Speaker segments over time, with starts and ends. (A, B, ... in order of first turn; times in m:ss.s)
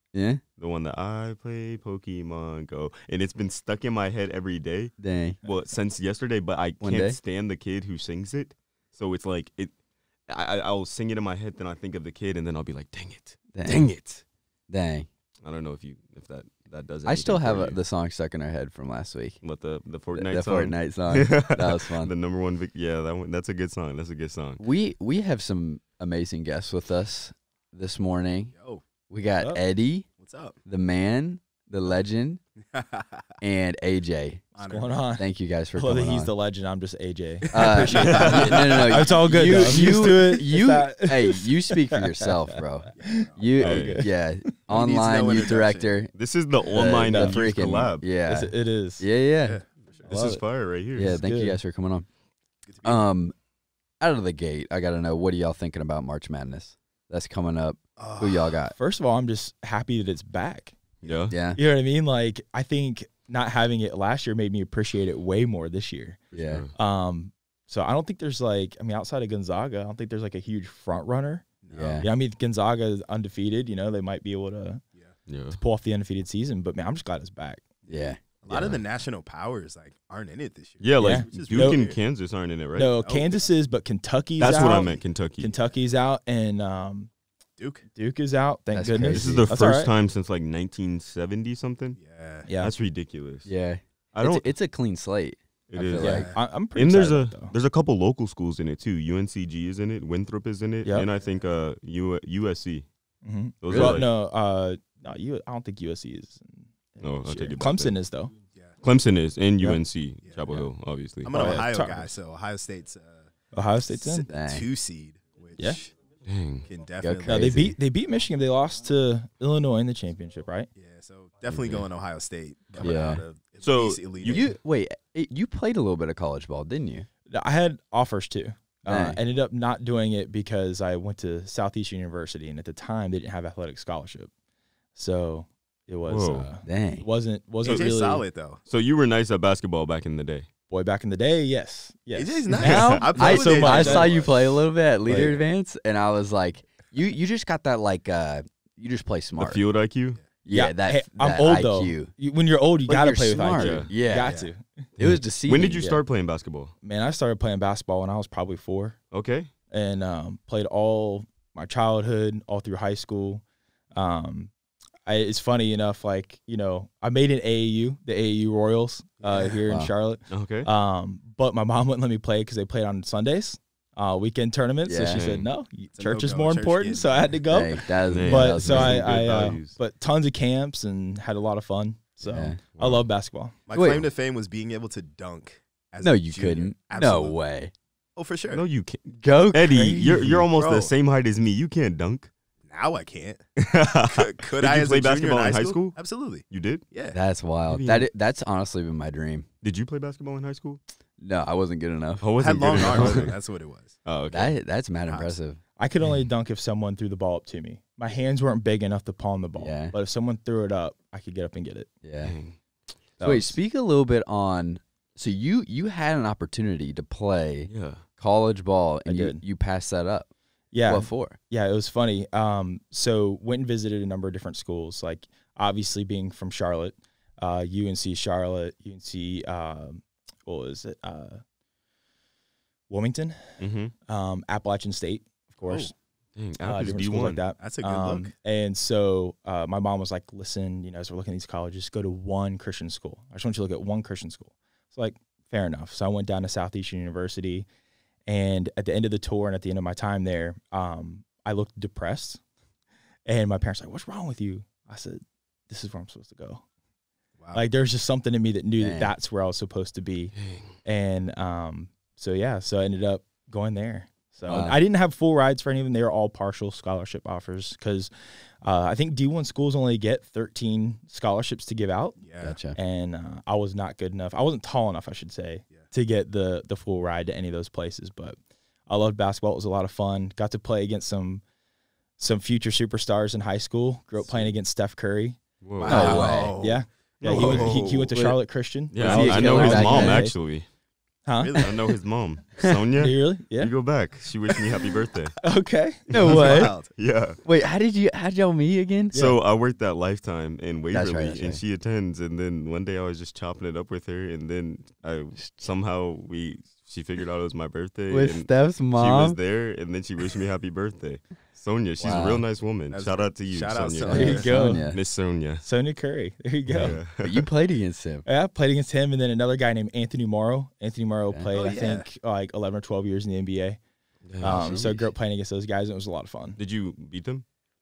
0:00.1-0:00.4 A
0:00.6-0:09.7 B
0:05.0-0:05.4 A
0:06.8-0:07.2 A
0:10.3-0:14.2 B
0:13.5-0:13.9 A
0:14.7-0:15.1 A
0:15.4-0:17.8 B
0:17.0-0:19.4 A
0:19.4-0:24.6 B
0:20.1-0:22.1 A
0:24.6-0:28.5 A
0:28.5-0:28.8 C
0:29.1-0:30.1 A
0:30.2-0:30.6 C
0:30.6-0:32.4 A
0:32.7-0:33.2 C
0:33.4-0:34.4 A
0:34.6-0:35.0 C
0:34.6-0:44.1 D
0:35.2-0:36.3 A
0:37.5-0:40.1 C
0:37.5-0:46.1 A
0:38.0-0:38.7 B
0:42.9-0:43.4 C
0:43.6-0:44.0 B
0:44.7-0:46.0 C
0:46.2-0:48.0 B
0:46.7-0:49.6 A
0:47.0-0:47.4 D
0:48.3-0:49.0 D
0:49.4-0:50.1 C
0:50.0-0:50.4 D
0:50.0-0:51.2 B
0:50.9-0:52.0 A
0:51.0-0:51.6 D
0:52.7-0:53.0 C
0:52.8-0:53.3 A
0:54.0-0:58.8 A
0:58.0-0:58.6 C
0:58.8-1:00.8 D
1:01.0-1:01.3 C
1:01.0-1:01.3 B
1:01.3-1:01.6 A
1:01.5-1:06.2 D
1:06.3-1:06.6 A
1:06.3-1:06.7 B
1:06.7-1:11.4 D
1:11.6-1:12.1 C
1:11.7-1:12.1 A
1:12.0-1:14.8 D
1:15.3-1:15.6 B
1:15.5-1:17.6 D
1:17.8-1:22.0 C
1:17.9-1:18.8 A
1:18.5-1:18.8 B
1:20.8-1:22.9 B
1:21.0-1:21.8 D
1:22.8-1:27.1 D
1:23.0-1:23.4 C
1:24.4-1:25.5 B
1:24.5-1:25.0 C
1:27.6-1:27.8 C
1:27.9-1:29.9 D
1:28.7-1:29.5 A
1:29.1-1:32.0 B
1:32.0-1:32.5 C
1:32.4-1:32.7 D
1:32.6-1:33.5 B
1:33.4-1:36.3 A
1:34.1-1:34.5 B
1:35.7-1:42.8 B
1:36.0-1:37.5 D
1:36.0-1:36.4 C
1:41.2-1:41.5 C
1:43.2-1:48.3 D
1:43.6-1:44.0 B
1:43.7-1:44.0 A
1:47.0-1:47.9 B
1:48.8-1:51.6 B
1:51.2-1:53.3 C
1:51.3-1:52.1 D
1:53.5-1:54.3 D
1:53.9-1:55.9 C
1:54.3-1:54.7 A
1:56.2-1:56.6 B
1:56.6-1:57.7 C
1:57.0-1:57.7 A
1:57.2-2:00.7 D
2:00.8-2:04.5 C
2:01.5-2:01.9 B
2:02.8-2:03.2 A
2:03.6-2:04.5 B
2:04.2-2:07.1 A
2:07.3-2:14.3 D
2:08.8-2:09.2 A
2:14.9-2:18.2 D
2:16.1-2:16.5 B
2:16.6-2:17.0 A
2:17.6-2:18.6 C
2:18.7-2:20.5 B
2:20.7-2:24.3 D
2:22.1-2:24.3 C
2:22.5-2:23.0 B
2:23.1-2:29.6 A
2:25.1-2:25.4 D
2:29.4-2:30.2 B
2:30.4-2:32.1 A
2:30.5-2:34.9 D
2:32.9-2:34.4 A
2:33.5-2:33.9 B
2:34.2-2:34.5 C
2:35.0-2:35.8 A
2:35.0-2:36.7 B
2:36.8-2:39.0 D
2:39.1-2:39.5 B
2:39.7-2:43.4 D
2:43.9-2:44.5 D
2:45.0-3:03.5 D
2:49.2-2:49.6 C
2:49.6-2:49.9 A
2:50.3-2:50.7 B
2:54.8-2:55.3 A
2:55.1-2:55.5 B
2:55.9-2:57.4 C
2:57.5-2:59.0 A
2:58.1-2:59.8 B
3:02.2-3:02.6 A
3:02.7-3:03.0 B
3:03.7-3:07.4 C
3:03.7-3:04.1 A
3:06.0-3:07.7 A
3:08.2-3:08.6 C
3:08.5-3:12.3 B
3:09.2-3:10.4 A
3:10.5-3:10.9 C
3:12.6-3:17.2 C
3:13.6-3:16.8 B
3:17.1-3:19.5 A
3:17.7-3:18.1 B
3:19.6-3:20.8 B
3:21.2-3:22.2 A
3:22.2-3:23.3 B
3:22.4-3:24.0 C
3:22.8-3:23.3 A
3:24.0-3:24.5 B
3:24.3-3:25.6 A
3:25.0-3:25.4 C
3:25.8-3:31.9 D
3:29.6-3:29.9 A
3:32.0-3:32.4 A
3:32.2-3:32.6 B
3:33.2-3:33.6 D
3:33.2-3:40.3 A
3:37.7-3:38.0 B
3:39.0-3:39.4 D
3:40.7-3:51.4 D
3:40.9-3:41.4 A
3:52.9-3:55.9 D
3:53.6-3:53.9 B
3:56.3-3:57.4 B
3:56.6-4:07.7 D
3:57.6-3:58.3 C
4:08.3-4:12.4 D
4:13.2-4:16.6 D
4:17.4-4:17.6 C
4:17.5-4:20.3 D
4:18.8-4:19.1 A
4:20.4-4:20.7 B
4:20.8-4:28.1 D
4:24.4-4:24.8 A
4:28.6-4:32.2 D
4:32.2-4:32.6 C
4:32.4-4:32.8 A
4:32.7-4:41.4 D
4:42.2-4:45.4 D
4:44.2-4:44.5 C
4:45.6-4:46.4 B
4:45.8-4:48.1 C
4:45.8-4:46.6 A
4:45.9-4:50.4 D
4:47.2-4:47.9 B
4:48.1-4:48.4 A
4:48.9-4:50.6 B
4:48.9-4:50.3 A
4:51.2-4:51.6 D
4:51.4-4:51.8 C
4:51.6-4:55.3 B
4:53.0-4:53.7 D
4:55.4-4:56.7 D
4:56.1-4:56.8 A
4:56.1-4:57.4 B
4:56.2-4:56.9 C
4:57.4-4:59.1 A
4:59.1-4:59.4 D
4:59.1-5:15.6 B
5:00.9-5:01.6 A
5:08.1-5:09.4 A
5:12.0-5:12.4 A
5:12.9-5:14.5 C
5:14.1-5:15.0 A
5:14.1-5:14.8 D
5:15.6-5:17.0 D
5:16.7-5:17.4 B
5:16.8-5:18.2 A
5:18.2-5:23.8 D
5:21.5-5:22.1 C
5:24.2-5:24.8 B
5:24.4-5:26.6 D
5:24.4-5:25.0 A
5:26.6-5:27.4 B